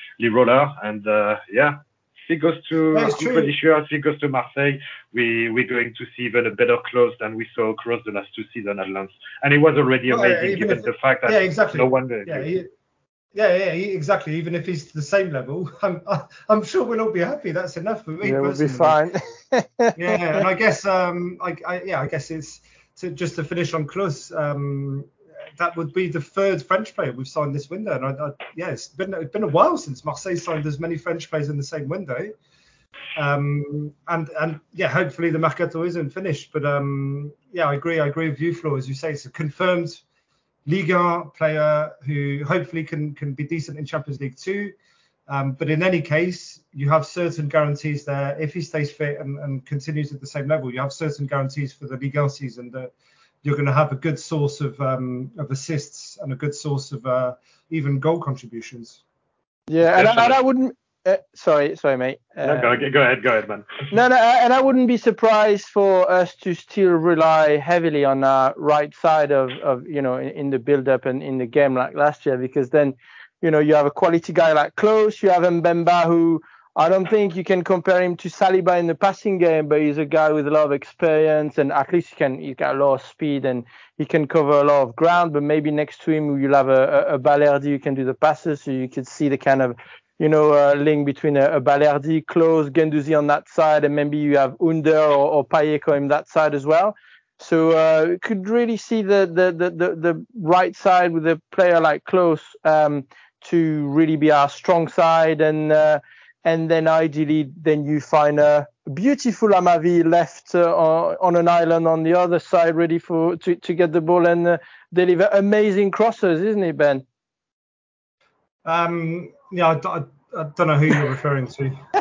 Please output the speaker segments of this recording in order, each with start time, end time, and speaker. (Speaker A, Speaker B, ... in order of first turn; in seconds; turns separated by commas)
Speaker A: 0.2-12.5, Speaker B: 2.9-3.5, Speaker B: 10.1-12.7, Speaker B: 13.3-19.0, Speaker C: 18.2-20.4, Speaker B: 19.9-32.3, Speaker B: 33.1-40.0, Speaker B: 40.6-44.7, Speaker B: 45.3-52.9, Speaker B: 53.4-59.0, Speaker C: 59.7-62.8, Speaker A: 59.9-60.4, Speaker A: 62.4-63.9, Speaker C: 63.9-117.0, Speaker B: 118.6-121.8